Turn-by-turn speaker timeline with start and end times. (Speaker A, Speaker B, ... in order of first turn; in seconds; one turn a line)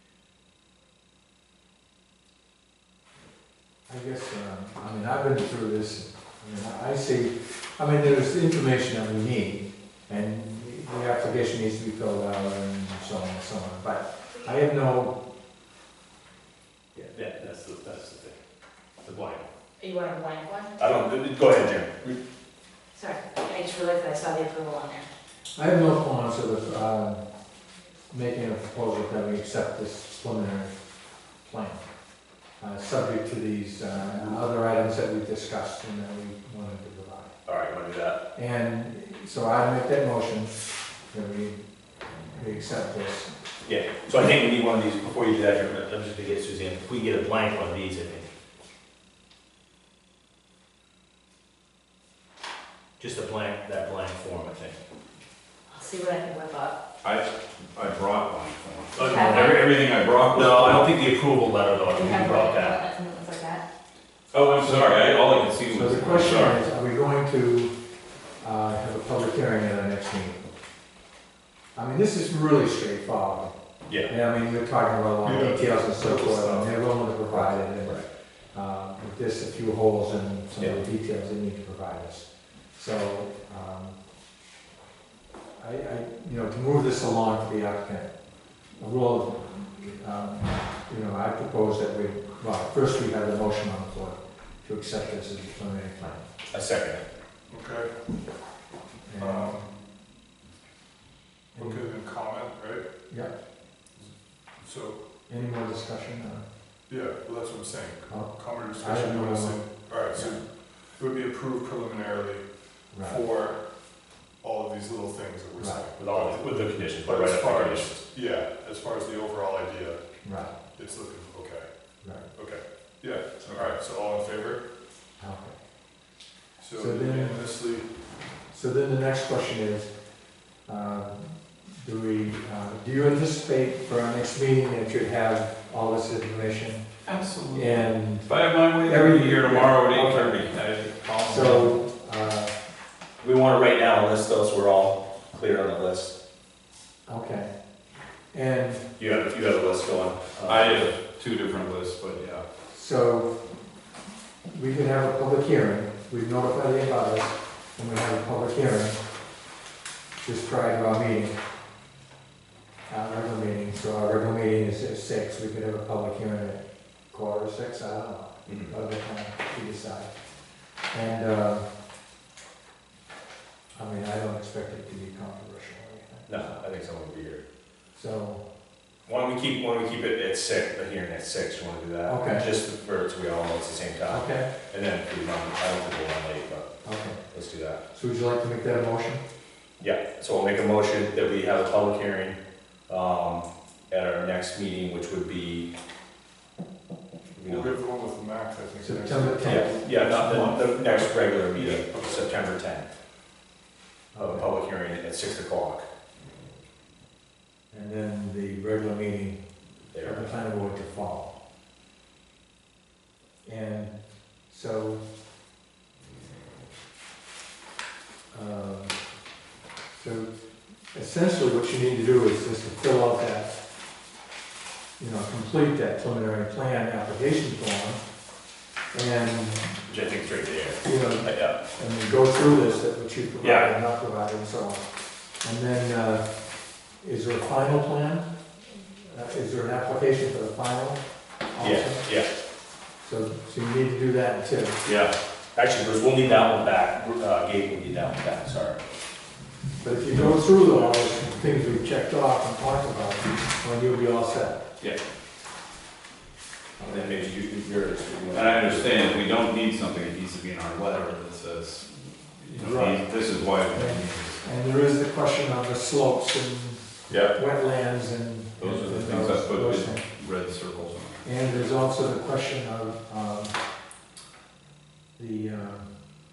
Speaker A: 3.9-15.2
Speaker B: 16.9-18.4
Speaker B: 19.0-19.5
Speaker C: 19.8-20.8
Speaker B: 20.8-22.2
Speaker C: 22.9-25.1
Speaker A: 25.6-27.2
Speaker A: 28.1-30.7
Speaker A: 31.4-31.8
Speaker A: 32.6-37.4
Speaker B: 37.5-38.2
Speaker A: 38.4-41.6
Speaker A: 42.3-43.3
Speaker B: 43.6-48.3
Speaker B: 53.0-54.8
Speaker C: 55.7-56.8
Speaker D: 57.0-60.9
Speaker B: 59.0-59.7
Speaker C: 59.0-59.6
Speaker A: 59.1-59.5
Speaker B: 60.3-62.8
Speaker C: 61.9-63.6
Speaker D: 64.3-66.6
Speaker A: 65.7-67.7
Speaker A: 68.4-70.4
Speaker A: 71.8-73.5
Speaker B: 73.9-74.1
Speaker A: 74.1-84.0
Speaker E: 75.2-76.0
Speaker B: 76.1-76.6
Speaker A: 85.6-88.1
Speaker A: 88.8-96.2
Speaker B: 96.5-97.0
Speaker E: 97.5-97.9
Speaker A: 99.1-99.6
Speaker E: 99.2-99.7
Speaker A: 101.5-101.9
Speaker E: 101.6-102.8
Speaker E: 104.6-105.0
Speaker A: 105.3-106.4
Speaker E: 106.9-110.5
Speaker A: 108.1-110.4
Speaker E: 111.0-112.5
Speaker A: 112.9-113.2
Speaker E: 113.0-113.6
Speaker E: 114.4-120.0
Speaker A: 115.6-115.9
Speaker B: 116.0-118.0
Speaker A: 120.2-120.5
Speaker E: 120.8-121.7
Speaker A: 122.0-122.3
Speaker E: 122.3-124.6
Speaker A: 125.2-125.6
Speaker E: 126.6-127.9
Speaker A: 126.7-127.5
Speaker A: 128.5-129.9
Speaker A: 130.7-136.8
Speaker D: 137.1-141.8
Speaker A: 137.5-140.6
Speaker A: 141.2-142.5
Speaker B: 143.2-146.2
Speaker A: 147.1-147.5
Speaker A: 148.3-148.9
Speaker B: 149.0-150.9
Speaker D: 150.5-152.4
Speaker A: 152.7-153.3
Speaker A: 154.5-159.0
Speaker A: 160.2-161.3
Speaker A: 162.9-170.1
Speaker B: 168.5-168.7
Speaker A: 170.9-171.7
Speaker A: 173.8-176.6
Speaker B: 176.3-177.4
Speaker A: 177.9-178.4
Speaker B: 179.1-186.7
Speaker A: 182.1-182.5
Speaker A: 184.1-184.5
Speaker A: 186.8-187.2
Speaker B: 187.3-187.8
Speaker A: 187.9-189.2
Speaker B: 189.8-195.7
Speaker B: 197.4-197.8
Speaker E: 197.4-202.3
Speaker A: 198.8-199.7
Speaker B: 199.4-202.9
Speaker A: 204.2-204.5
Speaker B: 204.2-205.8
Speaker A: 207.7-209.4
Speaker B: 209.9-210.3
Speaker A: 210.0-211.3
Speaker A: 213.4-215.0
Speaker A: 218.3-219.0
Speaker A: 219.9-220.3
Speaker A: 220.9-223.5
Speaker A: 225.0-228.0
Speaker A: 228.9-229.8
Speaker B: 229.9-231.6
Speaker A: 230.8-234.8
Speaker B: 233.4-233.7
Speaker A: 235.4-236.3
Speaker A: 237.0-242.1
Speaker B: 241.6-242.3
Speaker A: 243.0-244.9
Speaker D: 244.8-245.1
Speaker B: 245.6-248.8
Speaker A: 249.8-254.6
Speaker A: 256.8-257.3
Speaker B: 256.9-259.1
Speaker D: 258.3-264.4
Speaker A: 262.5-263.1
Speaker A: 263.6-270.1
Speaker D: 268.6-271.2
Speaker A: 271.2-273.5
Speaker A: 275.2-276.1